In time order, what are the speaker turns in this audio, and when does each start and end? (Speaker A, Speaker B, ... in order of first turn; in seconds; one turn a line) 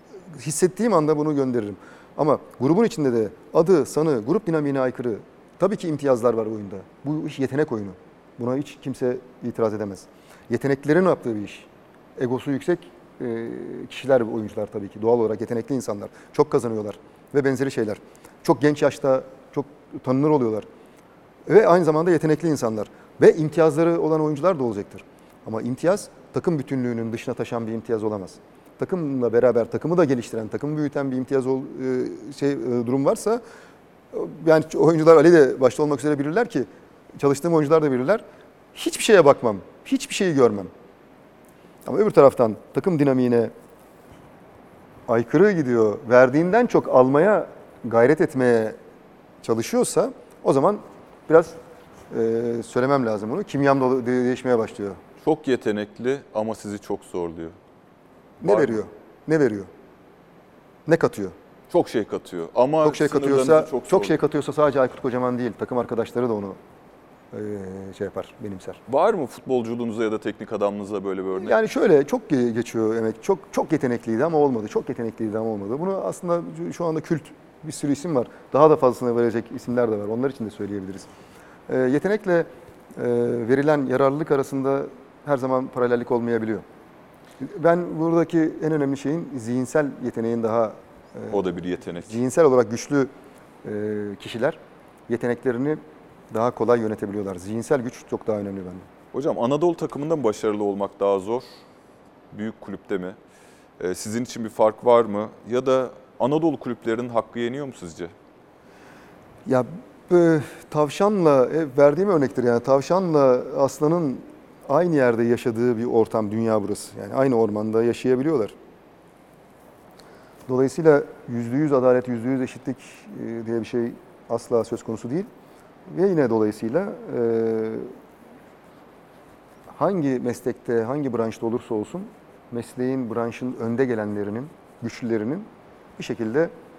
Speaker A: 0.3-20.7
Speaker A: 21.5-33.4
Speaker A: 34.1-38.2
Speaker A: 38.7-40.7
Speaker A: 41.9-43.5
Speaker A: 45.1-48.8
Speaker A: 49.4-51.6
Speaker A: 52.1-55.0
Speaker B: 55.2-57.6
Speaker A: 58.4-59.7
Speaker B: 58.4-58.8
Speaker A: 60.9-61.4
Speaker B: 61.7-64.2
Speaker A: 62.8-66.6
Speaker A: 67.3-68.8
Speaker B: 68.9-71.6
Speaker A: 71.3-81.1
Speaker A: 81.7-86.6
Speaker A: 87.4-91.4
Speaker B: 91.3-92.2
Speaker A: 92.0-93.1
Speaker A: 93.6-98.9
Speaker B: 99.1-101.5
Speaker B: 102.3-103.2
Speaker B: 103.8-108.1
Speaker A: 109.4-118.6
Speaker A: 120.5-125.3
Speaker A: 125.9-127.9
Speaker A: 129.7-136.5